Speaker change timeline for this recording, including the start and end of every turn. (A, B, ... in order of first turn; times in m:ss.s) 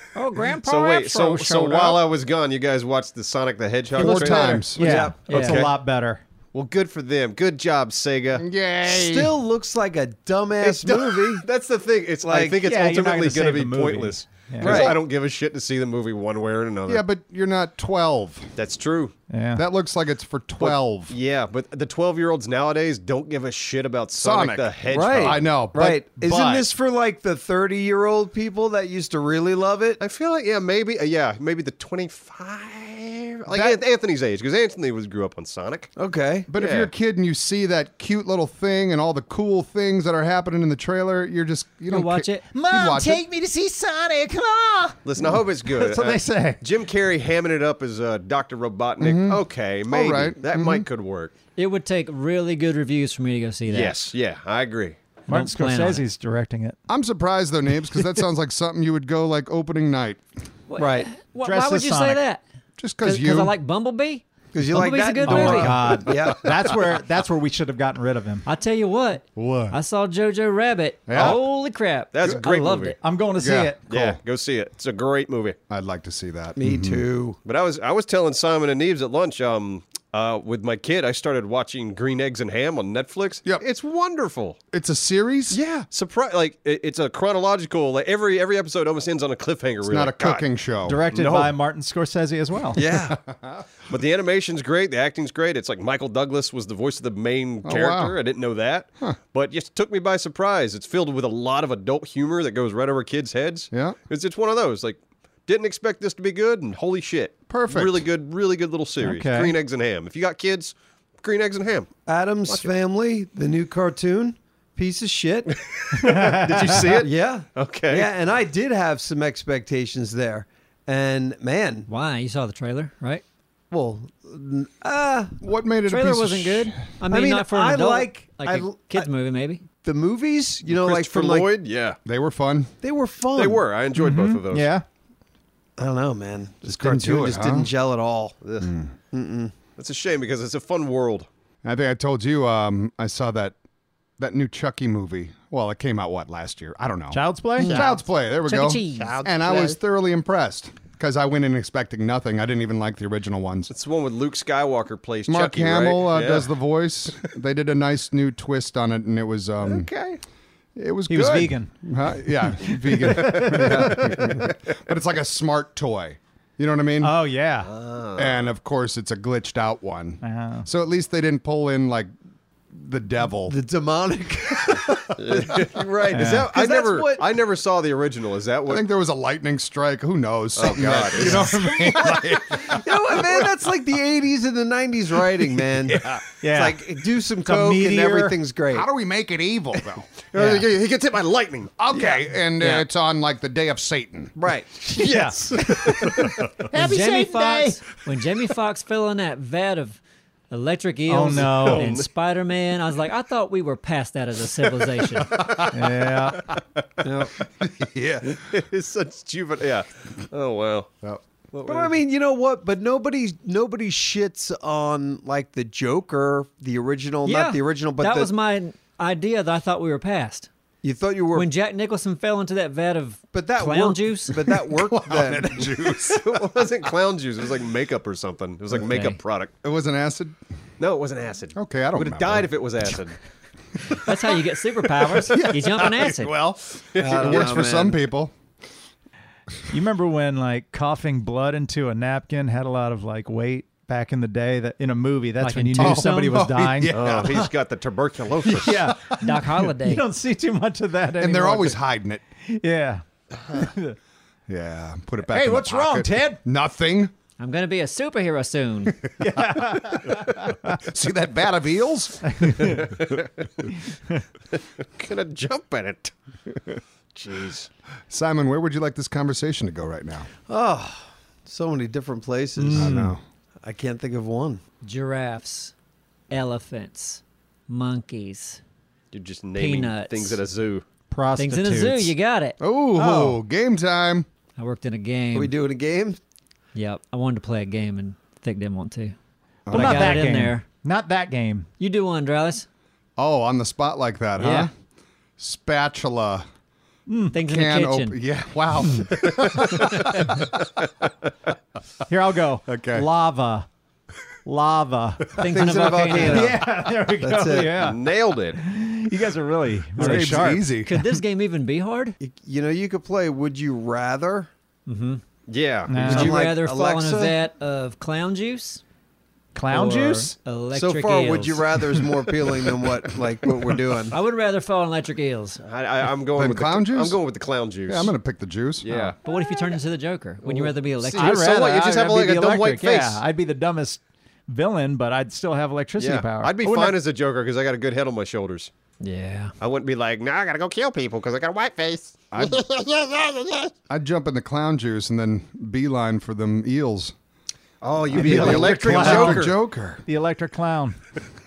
0:00.2-0:02.0 A
0:00.6-0:05.7 B
0:04.0-0:04.8 C
0:04.0-0:05.7 A
0:04.8-0:06.2 D
0:06.5-0:08.5 B
0:08.4-0:09.4 C
0:08.8-0:11.4 E
0:10.6-0:17.0 B
0:12.3-0:12.6 E
0:12.6-0:14.9 D
0:14.6-0:15.0 E
0:16.9-0:18.6 C
0:18.6-0:19.2 B
0:19.3-0:19.6 D
0:19.6-0:21.2 C
0:20.6-0:25.4 B
0:24.2-0:26.0 C
0:24.9-0:30.0 E
0:25.8-0:26.7 D
0:30.0-0:35.9 B
0:36.0-0:36.5 E
0:36.5-0:43.2 C
0:36.6-0:36.9 B
0:41.9-0:42.5 A
0:42.5-0:46.6 D
0:45.0-0:51.3 B
0:49.0-0:50.9 C
0:51.6-0:54.0 A
0:53.7-0:55.0 B
0:55.3-0:56.8 D
0:55.3-0:56.0 A
0:56.9-1:00.2 C
1:00.7-1:02.4 A
1:00.8-1:01.1 E
1:01.4-1:02.2 D
1:02.8-1:03.5 C
1:03.0-1:06.0 A
1:04.5-1:06.8 E
1:05.2-1:08.5 D
1:08.4-1:13.0 A
1:09.4-1:09.8 C
1:11.1-1:11.4 C
1:11.2-1:11.4 B
1:12.1-1:13.0 B
1:13.0-1:14.1 D
1:13.4-1:14.1 C
1:13.9-1:15.6 B
1:15.7-1:17.0 C
1:16.6-1:17.4 E
1:17.4-1:24.6 B
1:24.7-1:25.6 C
1:25.5-1:30.4 B
1:29.8-1:31.0 C
1:30.9-1:32.8 D
1:31.1-1:31.6 B
1:32.8-1:33.2 B
1:32.9-1:33.6 C
1:33.8-1:51.9 B
1:37.6-1:38.2 C
1:43.7-1:44.0 C
1:47.5-1:48.1 C
1:49.0-1:49.5 D
1:52.1-1:55.6 E
1:55.5-1:58.1 B
1:55.9-1:56.9 D
1:56.9-2:01.9 E
2:01.9-2:03.2 A
2:03.7-2:05.4 E
2:05.4-2:06.9 C
2:05.9-2:09.6 A
2:07.1-2:09.1 E
2:09.8-2:11.5 E
2:10.7-2:12.0 B
2:12.0-2:12.7 C
2:12.8-2:13.6 E
2:13.4-2:14.7 B
2:14.0-2:14.8 D
2:15.8-2:18.4 E
2:16.6-2:17.7 C
2:18.4-2:18.7 B
2:18.6-2:18.9 C
2:19.1-2:19.5 E
2:19.8-2:21.3 B
2:21.6-2:23.6 C
2:24.2-2:33.7 C
2:27.1-2:27.9 D
2:27.6-2:27.9 A
2:28.5-2:29.2 A
2:29.0-2:29.8 B
2:33.7-2:36.5 B
2:35.3-2:39.9 C
2:40.8-2:47.2 C
2:41.1-2:41.7 D
2:42.3-2:44.3 D
2:43.1-2:44.5 B
2:47.0-2:47.7 D
2:47.6-2:48.5 B
2:48.2-2:52.1 C
2:50.2-2:50.7 D
2:52.7-2:53.6 C
2:53.5-2:57.2 E
2:54.6-2:55.1 C
2:55.2-2:58.9 B
2:56.1-2:56.5 D
2:58.7-3:02.8 C
3:00.6-3:01.5 B
3:00.7-3:08.9 E
3:01.4-3:02.3 D
3:05.9-3:06.2 B
3:06.4-3:08.4 D
3:08.7-3:10.1 C
3:10.3-3:11.8 B
3:10.4-3:10.7 D
3:11.8-3:14.3 C
3:11.9-3:12.9 E
3:14.4-3:16.3 E
3:15.0-3:16.5 B
3:15.0-3:17.8 D
3:16.7-3:25.5 A
3:21.1-3:21.9 D
3:21.4-3:22.1 B
3:25.2-3:26.4 C
3:25.7-3:26.4 D
3:27.0-3:27.4 E
3:27.4-3:28.4 C
3:28.2-3:30.9 B
3:31.5-3:32.0 B
3:31.7-3:38.3 E
3:37.2-3:40.5 A
3:40.8-3:41.5 E
3:41.3-3:44.4 A
3:43.3-3:45.7 E
3:44.5-3:46.7 C
3:45.9-3:49.5 B
3:48.9-3:49.2 A
3:49.6-3:50.4 C
3:50.8-3:53.2 B
3:51.6-3:52.5 C
3:54.0-3:56.3 A
3:55.2-3:58.3 C
3:56.9-3:57.8 B
3:57.0-3:58.0 E
3:59.7-4:07.5 D
4:05.4-4:06.5 A
4:05.8-4:07.5 C
4:06.9-4:08.9 B
4:08.4-4:11.8 D
4:09.2-4:10.1 A
4:11.2-4:12.2 C
4:12.4-4:14.0 D
4:14.5-4:17.1 C
4:15.3-4:16.4 D
4:17.4-4:19.0 A
4:19.2-4:20.8 D
4:19.4-4:22.6 C
4:22.3-4:22.9 D
4:22.6-4:23.5 B
4:23.9-4:24.2 D
4:24.8-4:26.1 B
4:27.2-4:27.7 B
4:28.1-4:30.3 C
4:30.5-4:33.0 E
4:32.6-4:33.2 D
4:32.7-4:33.2 C
4:33.6-4:34.6 E
4:34.8-4:35.7 A
4:36.3-4:38.6 A
4:39.1-4:40.8 B
4:39.6-4:40.4 A
4:41.1-4:42.1 D
4:41.4-4:42.6 A
4:42.6-4:44.3 C
4:43.0-4:43.3 D
4:44.6-4:45.5 A
4:45.3-4:46.2 E
4:46.7-4:49.2 A
4:49.7-4:50.2 C
4:49.7-4:50.7 A
4:49.7-4:51.7 D
4:51.8-4:52.7 A
4:53.2-4:54.7 C
4:54.4-4:54.7 A
4:55.4-4:56.4 C
4:57.1-4:57.4 D
4:57.3-4:58.2 A
4:57.4-5:00.6 C
5:02.1-5:03.7 D
5:02.7-5:03.1 C
5:04.4-5:05.4 D
5:05.4-5:06.6 A
5:05.4-5:07.8 E
5:06.1-5:08.0 D
5:07.8-5:08.6 B
5:08.6-5:11.1 D
5:10.0-5:10.9 C
5:10.0-5:12.2 A
5:12.2-5:14.5 E
5:14.9-5:15.2 A
5:15.5-5:16.4 B
5:15.9-5:16.4 D
5:16.0-5:17.4 E
5:16.0-5:18.8 A
5:19.6-5:20.4 D
5:19.7-5:21.7 A
5:20.7-5:24.2 E
5:24.1-5:25.6 A
5:25.6-5:28.1 B
5:26.3-5:27.2 C
5:27.9-5:28.9 C
5:28.8-5:29.2 B
5:29.2-5:31.4 A
5:31.1-5:37.0 D
5:31.1-5:33.2 B
5:36.0-5:38.7 B
5:39.0-5:39.5 A
5:39.6-5:43.7 B
5:42.3-5:42.6 C
5:43.9-5:47.1 C
5:47.8-5:49.6 B
5:48.1-5:50.0 C
5:48.1-5:51.0 D